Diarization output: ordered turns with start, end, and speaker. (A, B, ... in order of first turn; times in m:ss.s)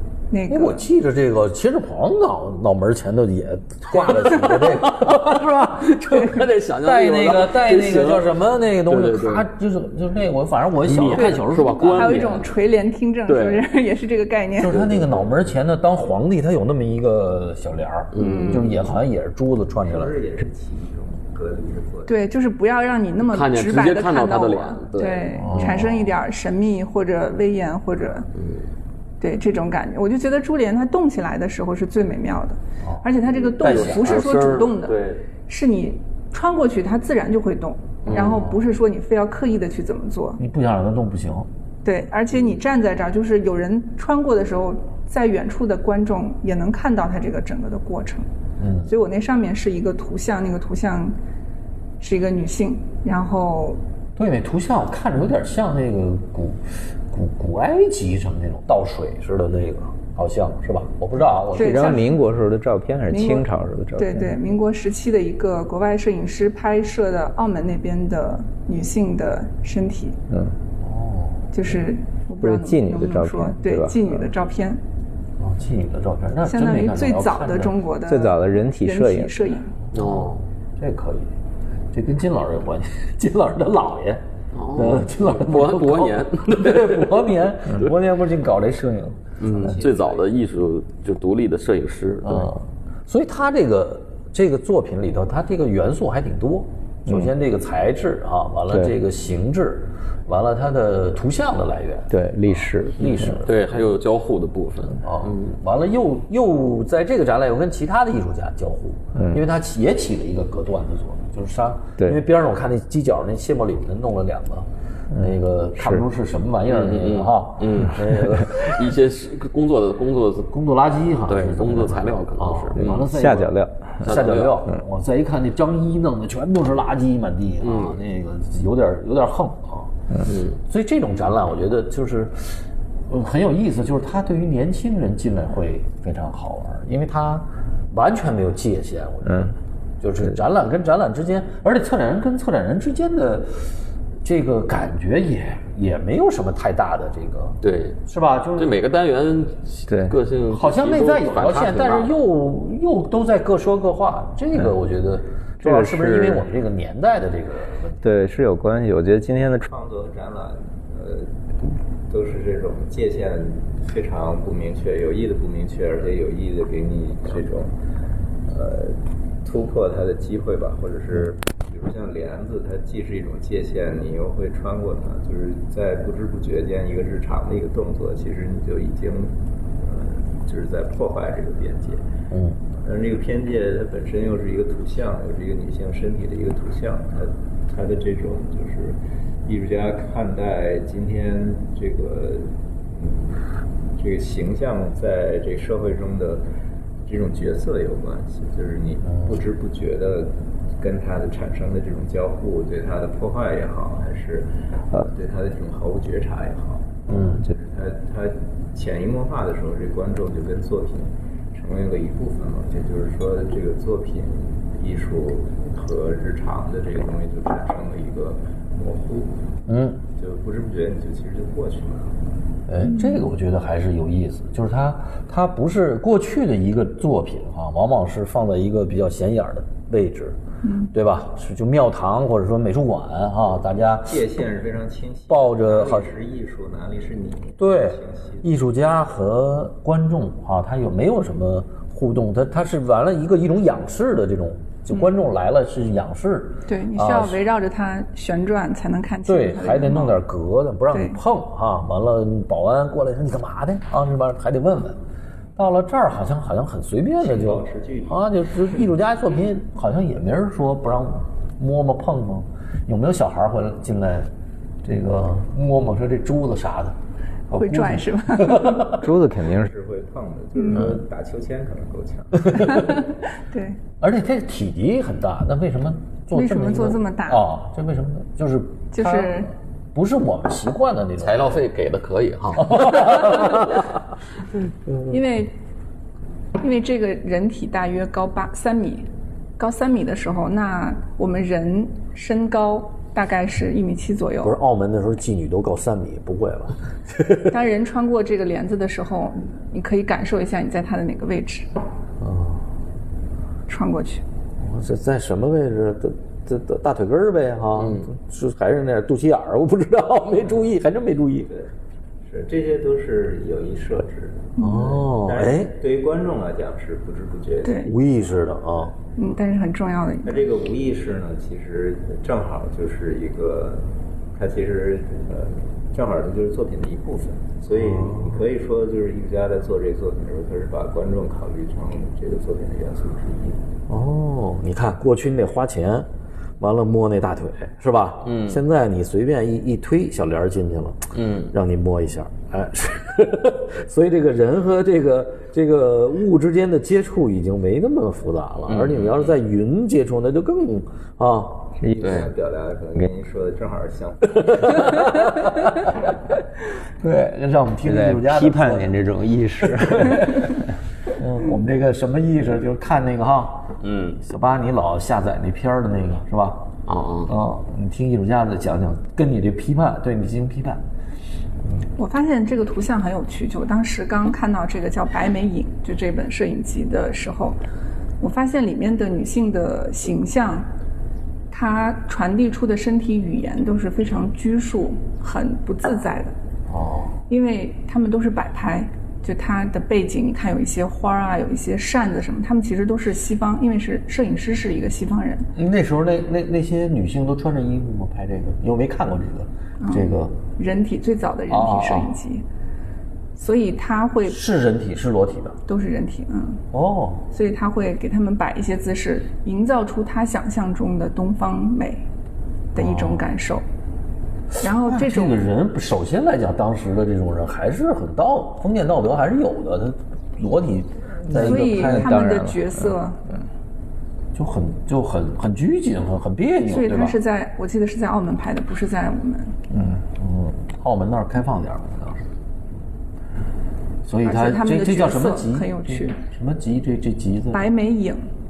0:00.3-0:00.9 A
0:00.5-0:12.4 B
0:03.9-0:09.5 C
0:10.8-0:12.5 C
0:11.8-0:14.8 A
0:13.3-0:13.7 C
0:14.6-0:20.2 B
0:14.7-0:15.4 C
0:18.1-0:18.9 C
0:18.2-0:18.6 A
0:19.9-0:22.1 D
0:22.1-0:28.3 A
0:23.3-0:25.6 C
0:25.4-0:26.2 B
0:28.4-0:28.6 C
0:29.2-0:40.4 A
0:33.5-0:35.2 C
0:38.1-0:38.4 C
0:38.1-0:38.6 B
0:40.4-0:41.5 B
0:41.8-0:48.3 A
0:48.6-0:48.9 B
0:48.8-0:51.2 A
0:52.0-0:53.8 A
0:54.2-1:02.0 B
1:01.5-1:02.2 A
1:01.5-1:04.4 E
1:03.1-1:10.2 A
1:10.3-1:10.6 E
1:10.8-1:11.5 B
1:11.5-1:14.8 A
1:12.4-1:14.2 E
1:15.4-1:17.8 B
1:16.4-1:19.7 A
1:18.1-1:19.5 E
1:19.9-1:21.3 B
1:19.9-1:20.4 C
1:21.9-1:29.8 B
1:24.5-1:27.2 C
1:29.4-1:32.5 C
1:29.6-1:30.2 D
1:32.2-1:43.6 B
1:42.1-1:43.4 E
1:43.4-1:45.5 C
1:45.0-1:58.8 B
1:49.2-1:49.4 E
1:55.8-1:56.0 E
1:56.7-2:00.5 C
2:00.5-2:10.0 B
2:01.3-2:03.1 C
2:03.0-2:04.0 E
2:04.0-2:04.6 C
2:07.6-2:08.0 C
2:10.3-2:10.6 C
2:10.6-2:28.8 B
2:19.3-2:19.5 E
2:27.6-2:28.0 C
2:28.6-2:32.2 C
2:29.9-2:30.2 E
2:30.5-2:38.1 B
2:35.6-2:36.4 E
2:38.0-2:39.7 E
2:39.7-2:41.3 D
2:42.1-2:47.7 D
2:48.5-3:02.0 D
3:02.3-3:02.6 B
3:02.8-3:16.4 D
3:17.1-3:39.4 D
3:27.1-3:27.4 B
3:39.7-3:40.0 B
3:40.2-3:42.2 D
3:42.7-3:50.4 B
3:50.6-3:50.9 A
3:50.9-3:54.3 B
3:54.1-3:58.5 D
3:55.3-3:56.1 B
3:57.6-4:07.4 B
4:06.7-4:10.2 A
4:09.2-4:15.0 B
4:10.9-4:11.2 A
4:15.6-4:24.3 B
4:17.2-4:18.2 D
4:24.8-4:27.0 B
4:27.5-4:29.1 B
4:27.5-4:28.8 A
4:28.9-4:29.7 E
4:29.6-4:32.9 D
4:32.6-4:33.8 A
4:34.0-4:41.6 B
4:36.3-4:37.5 A
4:38.9-4:39.5 A
4:41.2-4:43.8 C
4:42.6-4:43.8 B
4:45.1-4:45.5 A
4:46.6-4:54.6 A
4:54.4-4:57.5 B
4:57.4-5:01.7 A
5:02.2-5:02.6 B
5:03.7-5:04.2 A
5:04.6-5:11.5 B
5:07.8-5:08.1 C
5:12.2-5:18.2 D
5:14.6-5:15.8 B
5:17.6-5:17.9 A
5:17.8-5:19.0 B
5:19.2-5:20.4 A
5:20.2-5:33.6 D
5:27.7-5:28.4 B
5:33.9-5:36.1 B
5:36.6-5:51.7 B
5:38.2-5:38.6 C
5:41.2-5:41.5 C
5:48.7-5:49.3 C
5:51.8-5:55.2 D
5:52.0-5:52.3 C
5:54.9-5:55.9 B
5:57.0-5:59.0 B
5:57.8-6:00.6 E
5:59.6-6:00.6 B
6:01.1-6:06.7 B
6:03.8-6:04.2 C
6:06.9-6:07.3 C
6:07.3-6:10.8 B
6:12.0-6:17.6 A
6:18.2-6:20.7 A
6:21.5-6:26.3 A
6:26.7-6:27.2 B
6:27.3-6:35.5 A
6:35.6-6:40.4 B
6:39.8-6:42.4 A
6:41.5-6:42.2 B
6:43.4-6:44.4 A
6:44.3-6:45.6 B
6:45.7-6:46.6 A
6:46.7-6:47.2 B
6:47.3-6:52.0 A
6:52.7-6:53.6 A
6:52.8-6:53.2 B
6:54.6-6:55.4 A
6:54.8-7:02.1 B
7:01.2-7:03.0 E
7:01.3-7:03.2 A
7:04.3-7:07.2 B
7:06.7-7:09.6 A
7:09.7-7:12.3 B
7:14.1-7:17.7 B
7:14.2-7:16.2 A
7:17.5-7:18.3 A